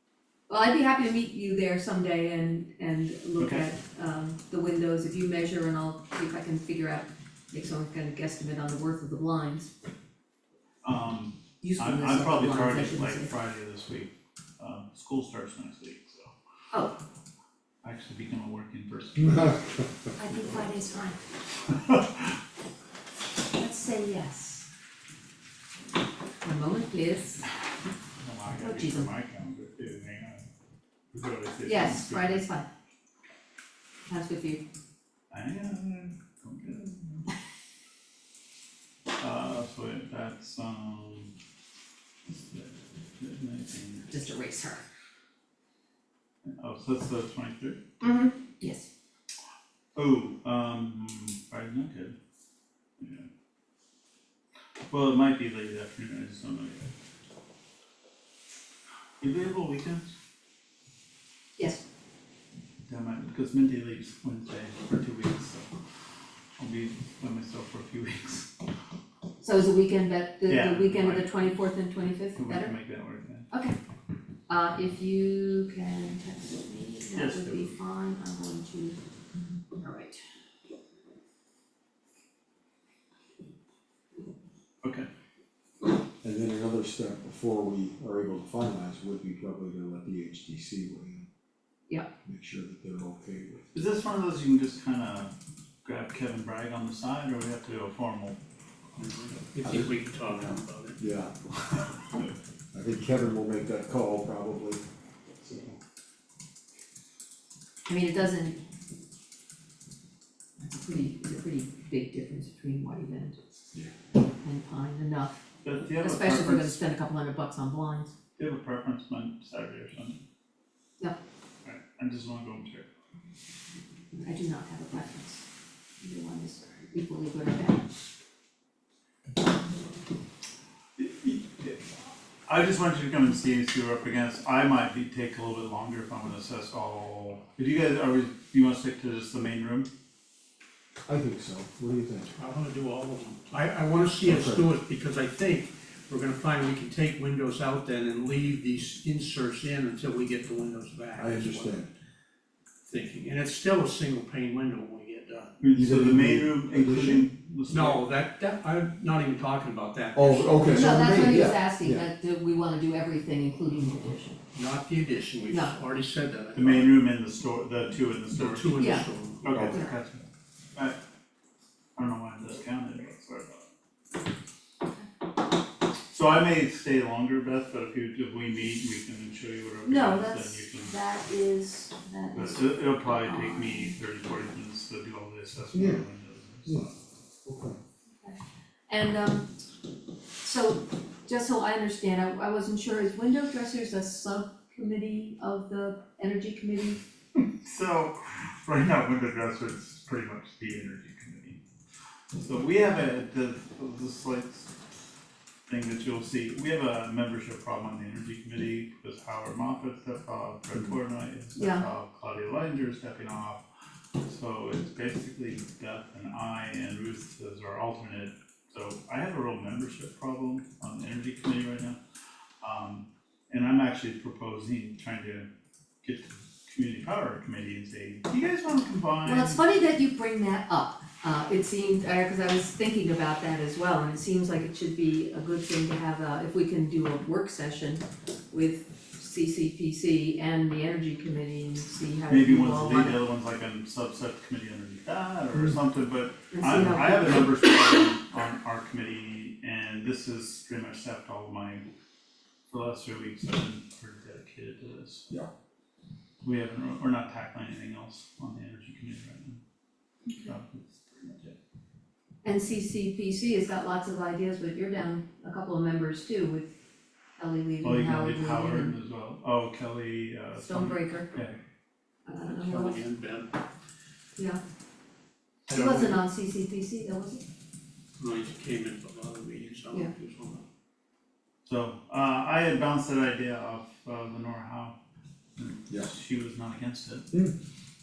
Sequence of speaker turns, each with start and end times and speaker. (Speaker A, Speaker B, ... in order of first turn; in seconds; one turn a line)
Speaker A: 0.5-9.7
Speaker B: 3.4-3.6
Speaker B: 10.8-16.3
Speaker A: 11.6-13.3
Speaker B: 17.8-19.8
Speaker A: 20.1-21.2
Speaker B: 21.7-22.3
Speaker A: 23.5-24.7
Speaker A: 26.4-27.4
Speaker B: 28.2-30.4
Speaker A: 28.6-29.1
Speaker B: 31.1-32.4
Speaker A: 31.6-32.7
Speaker A: 34.1-34.6
Speaker B: 35.3-37.3
Speaker B: 39.2-41.3
Speaker B: 42.2-44.1
Speaker A: 44.1-44.8
Speaker B: 46.6-47.8
Speaker A: 48.0-48.9
Speaker B: 50.0-52.1
Speaker B: 53.0-53.3
Speaker B: 54.9-56.9
Speaker B: 59.2-60.1
Speaker A: 61.6-61.8
Speaker B: 62.9-65.7
Speaker B: 66.6-68.5
Speaker A: 69.4-72.7
Speaker B: 70.5-71.6
Speaker B: 72.3-73.5
Speaker A: 73.5-73.8
Speaker A: 74.5-79.0
Speaker B: 77.1-77.7
Speaker A: 79.7-80.2
Speaker C: 86.2-91.3
Speaker C: 92.2-93.7
Speaker B: 93.7-95.3
Speaker B: 95.8-98.4
Speaker B: 99.0-99.3
Speaker D: 99.5-101.0
Speaker C: 99.6-101.8
Speaker C: 102.7-104.8
Speaker C: 105.4-105.8
Speaker A: 107.9-108.6
Speaker A: 110.6-113.4
Speaker A: 114.4-115.3
Speaker B: 115.6-116.8
Speaker A: 116.0-118.1
Speaker B: 118.4-120.2
Speaker B: 121.6-122.8
Speaker A: 124.2-125.4
Speaker A: 126.0-127.8
Speaker B: 131.0-131.8
Speaker B: 132.5-139.9
Speaker C: 141.1-142.3
Speaker D: 142.3-151.8
Speaker C: 144.2-144.7
Speaker C: 151.2-151.9
Speaker D: 152.8-155.6
Speaker B: 155.6-158.0
Speaker C: 155.7-157.3
Speaker D: 157.7-161.1
Speaker C: 160.1-162.0
Speaker A: 160.7-164.4
Speaker D: 164.5-166.9
Speaker A: 165.5-165.8
Speaker B: 166.5-170.2
Speaker D: 168.3-169.7
Speaker A: 168.8-169.1
Speaker C: 169.5-169.8
Speaker B: 171.9-173.6
Speaker B: 176.1-180.9
Speaker A: 179.8-183.9
Speaker B: 182.3-186.9
Speaker C: 185.7-186.0
Speaker C: 187.4-187.8
Speaker A: 188.9-189.5
Speaker A: 190.4-197.0
Speaker B: 197.6-201.6
Speaker B: 202.3-204.7
Speaker B: 205.7-213.6
Speaker A: 211.6-211.8
Speaker B: 214.2-222.0
Speaker B: 222.6-225.5
Speaker B: 226.0-229.6
Speaker A: 229.2-243.2
Speaker B: 242.3-251.8
Speaker A: 246.5-248.1
Speaker B: 252.7-255.2
Speaker B: 256.4-259.6
Speaker B: 260.4-261.6
Speaker A: 262.4-266.8
Speaker A: 267.4-268.9
Speaker B: 267.8-271.6
Speaker A: 270.6-271.3
Speaker A: 272.2-273.0
Speaker D: 272.5-273.5
Speaker A: 275.7-277.4
Speaker D: 275.7-276.1
Speaker D: 278.2-280.6
Speaker B: 281.6-284.9
Speaker B: 285.6-287.3
Speaker C: 287.3-287.6